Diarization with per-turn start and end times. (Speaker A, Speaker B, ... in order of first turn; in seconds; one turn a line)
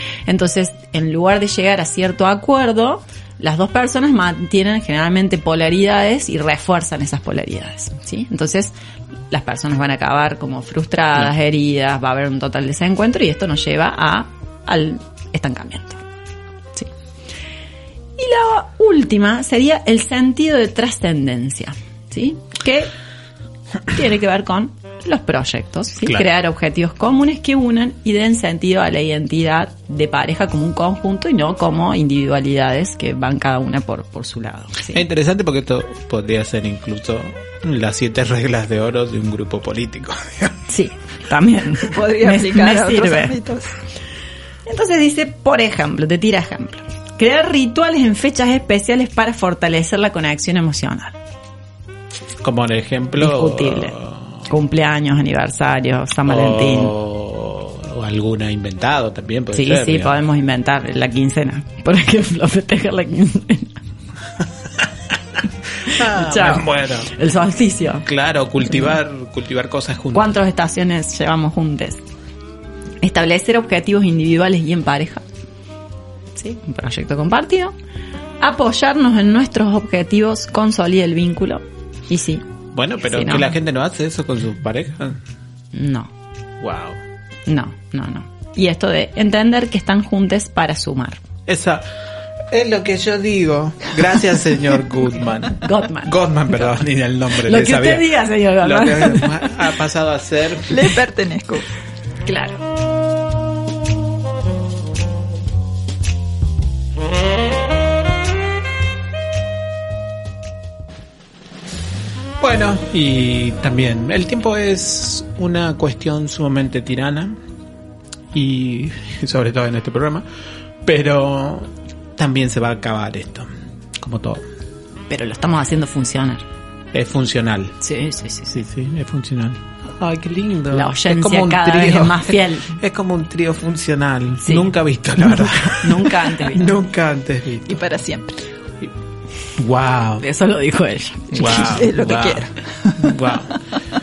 Speaker A: 0.3-8.7
Speaker A: 9.3-16.0
Speaker A: 18.2-22.9
Speaker A: 23.9-35.0
Speaker B: 34.9-40.6
Speaker A: 40.7-43.4
Speaker C: 41.9-43.7
Speaker A: 44.7-51.2
Speaker B: 52.4-54.4
Speaker A: 53.2-57.0
Speaker B: 56.3-60.2
Speaker A: 59.5-63.8
Speaker B: 64.4-67.1
Speaker A: 65.9-68.1
Speaker B: 68.1-70.3
Speaker A: 70.1-72.0
Speaker A: 73.0-75.2
Speaker A: 76.4-77.8
Speaker A: 78.4-82.4
Speaker B: 82.7-85.2
Speaker A: 83.0-83.5
Speaker A: 85.7-86.1
Speaker B: 86.6-87.0
Speaker A: 87.5-91.2
Speaker B: 91.5-91.9
Speaker B: 92.5-101.0
Speaker A: 95.6-96.8
Speaker A: 97.3-99.5
Speaker C: 100.7-101.7
Speaker A: 102.2-102.6
Speaker B: 112.4-117.4
Speaker B: 118.3-120.3
Speaker B: 120.8-124.5
Speaker A: 125.1-126.4
Speaker B: 126.9-127.8
Speaker A: 127.8-128.6
Speaker B: 128.5-137.8
Speaker A: 130.7-132.8
Speaker A: 134.4-136.7
Speaker C: 137.7-138.4
Speaker B: 139.6-140.3
Speaker A: 140.2-141.8
Speaker B: 141.3-143.6
Speaker C: 141.4-143.1